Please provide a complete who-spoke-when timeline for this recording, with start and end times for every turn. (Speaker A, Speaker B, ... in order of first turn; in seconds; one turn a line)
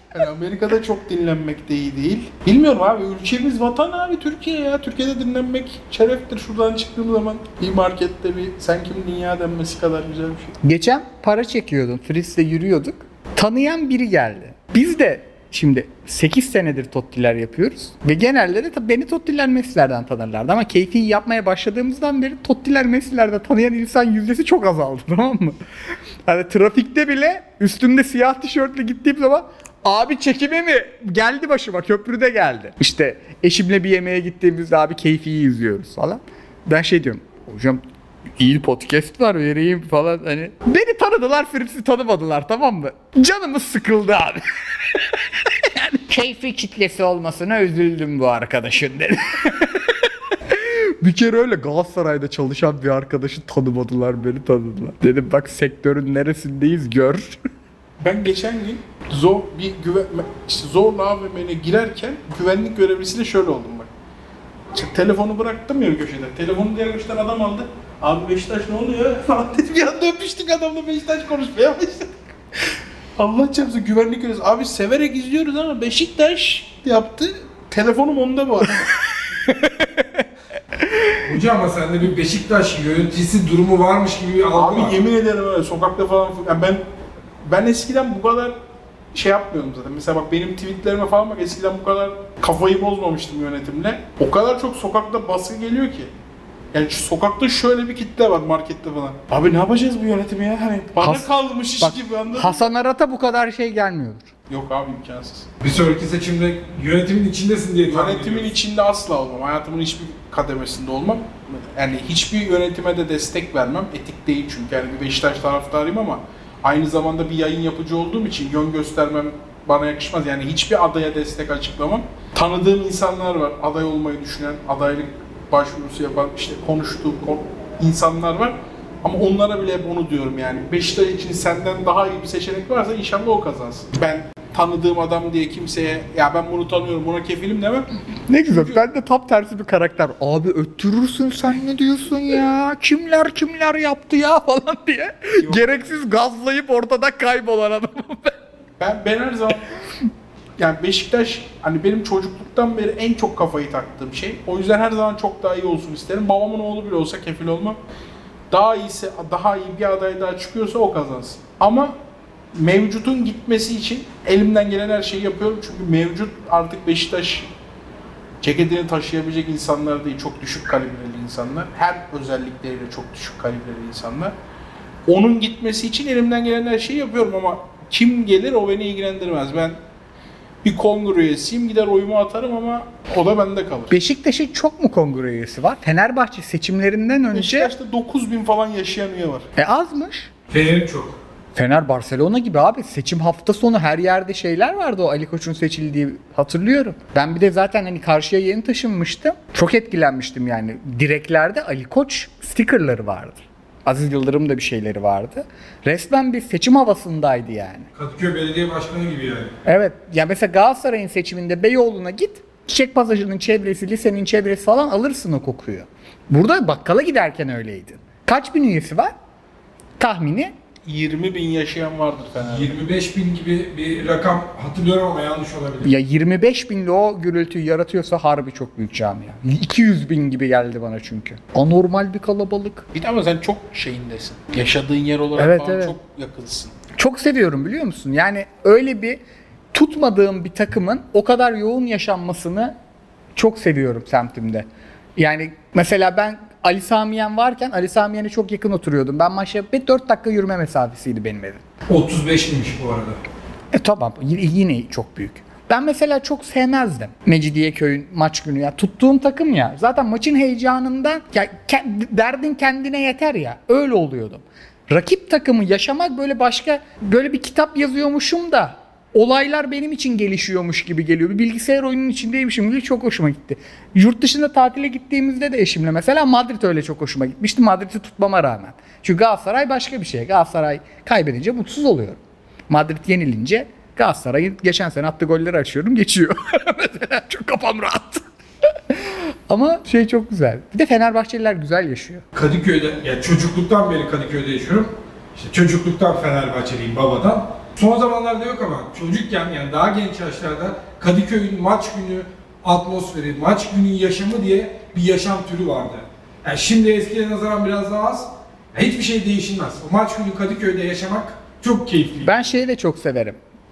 Speaker A: 0.1-10.6
Speaker B: 10.6-25.6
Speaker B: 26.2-37.8
Speaker B: 38.4-57.4
Speaker A: 58.0-63.9
Speaker A: 64.7-72.1
Speaker A: 72.7-78.9
Speaker B: 79.1-80.2
Speaker C: 81.2-85.0
Speaker A: 84.5-86.8
Speaker A: 87.4-88.5
Speaker A: 89.1-96.1
Speaker A: 96.7-102.6
Speaker B: 101.0-104.3
Speaker A: 104.5-105.5
Speaker C: 105.6-108.5
Speaker A: 107.9-137.9
Speaker B: 138.3-148.4
Speaker A: 138.5-138.8
Speaker A: 148.8-149.8
Speaker A: 150.6-157.8
Speaker A: 158.5-161.9
Speaker A: 162.5-167.5
Speaker A: 168.4-174.3
Speaker A: 175.1-179.8
Speaker A: 180.6-183.9
Speaker B: 183.9-187.7
Speaker A: 187.3-189.5
Speaker B: 189.6-190.3
Speaker C: 190.5-191.2
Speaker B: 191.5-207.9
Speaker C: 207.9-209.5
Speaker B: 209.6-219.1
Speaker B: 220.0-220.5
Speaker A: 220.8-222.8
Speaker C: 222.4-225.9
Speaker B: 225.8-232.8
Speaker A: 232.9-236.8
Speaker B: 235.3-235.9
Speaker B: 237.0-239.2
Speaker B: 239.7-242.8
Speaker B: 243.3-251.6
Speaker C: 251.9-253.2
Speaker B: 253.7-292.2
Speaker C: 292.3-312.5
Speaker B: 312.2-313.4